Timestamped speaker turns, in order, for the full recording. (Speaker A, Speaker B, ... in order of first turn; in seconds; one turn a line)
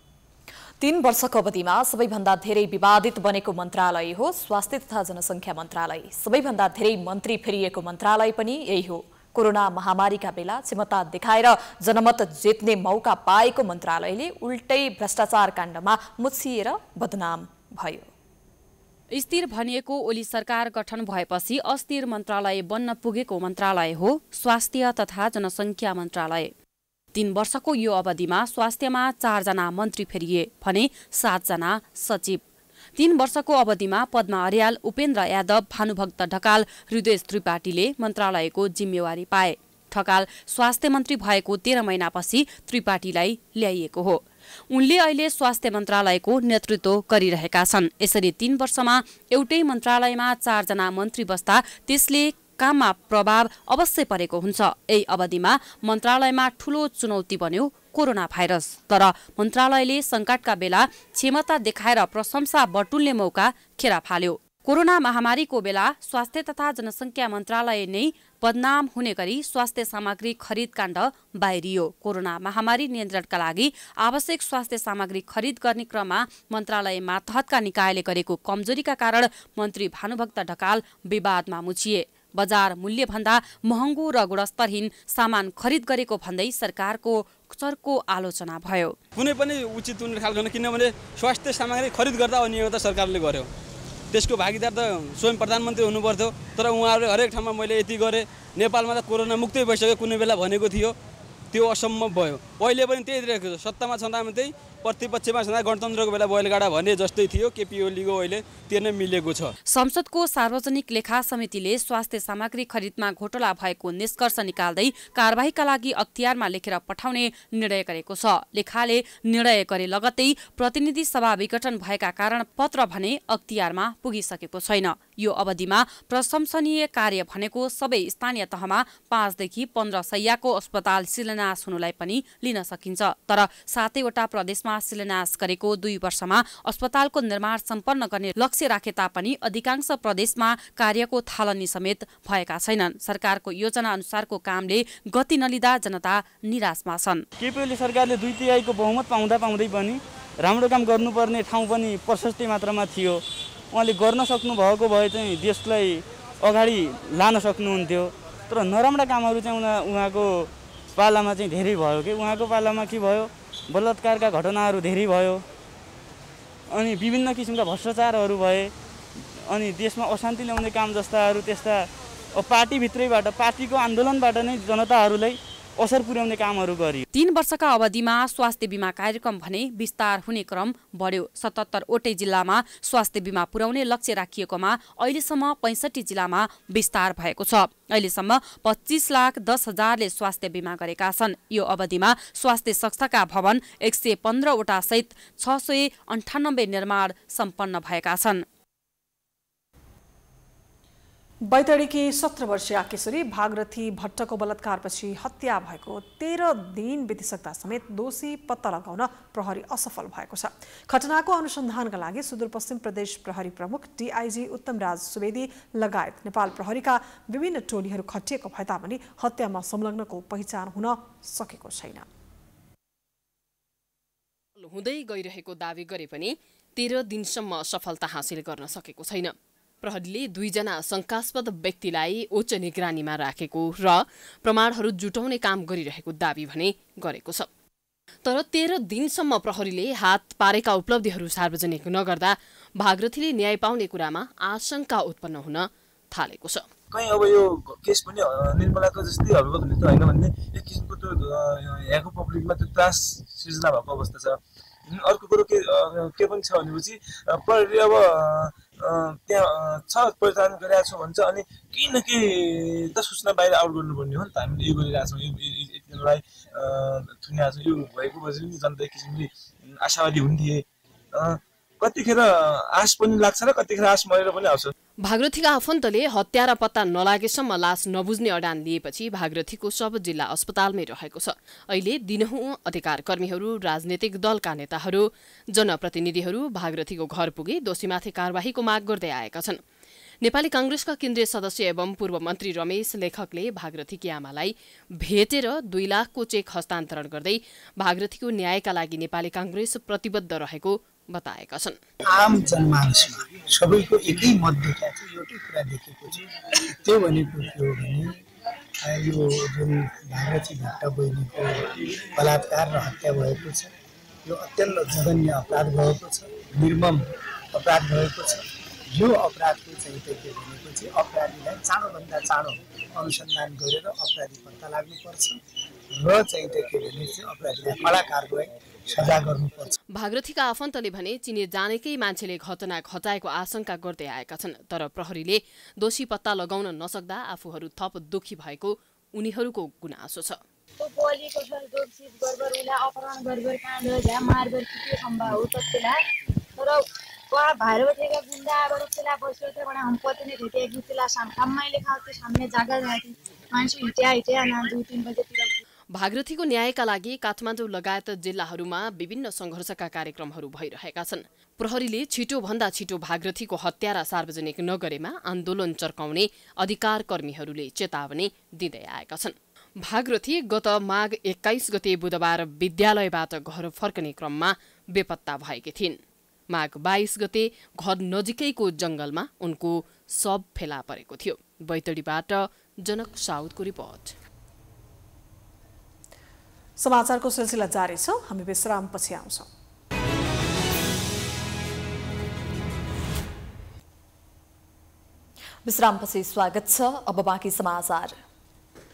Speaker A: 0.8-18.1
Speaker B: 19.1-26.5
Speaker B: 27.1-32.4
Speaker B: 33.0-89.0
Speaker C: 89.2-93.5
Speaker C: 94.1-101.0
Speaker C: 101.5-109.5
Speaker B: 109.7-147.2
Speaker D: 147.4-153.2
Speaker D: 153.7-165.4
Speaker D: 166.7-168.7
Speaker D: 169.5-177.0
Speaker B: 177.1-198.4
Speaker E: 201.5-222.1
Speaker F: 224.6-237.5
Speaker F: 238.2-246.7
Speaker G: 246.9-274.7
Speaker F: 275.0-289.6
Speaker F: 290.2-301.8
Speaker H: 302.1-308.2
Speaker H: 308.9-313.7
Speaker H: 314.2-318.4
Speaker H: 318.9-325.4
Speaker H: 325.9-329.7
Speaker F: 329.9-340.4
Speaker I: 340.8-346.0
Speaker I: 346.6-355.6
Speaker F: 355.9-376.0
Speaker F: 376.5-384.2
Speaker E: 386.8-389.5
Speaker A: 395.6-398.2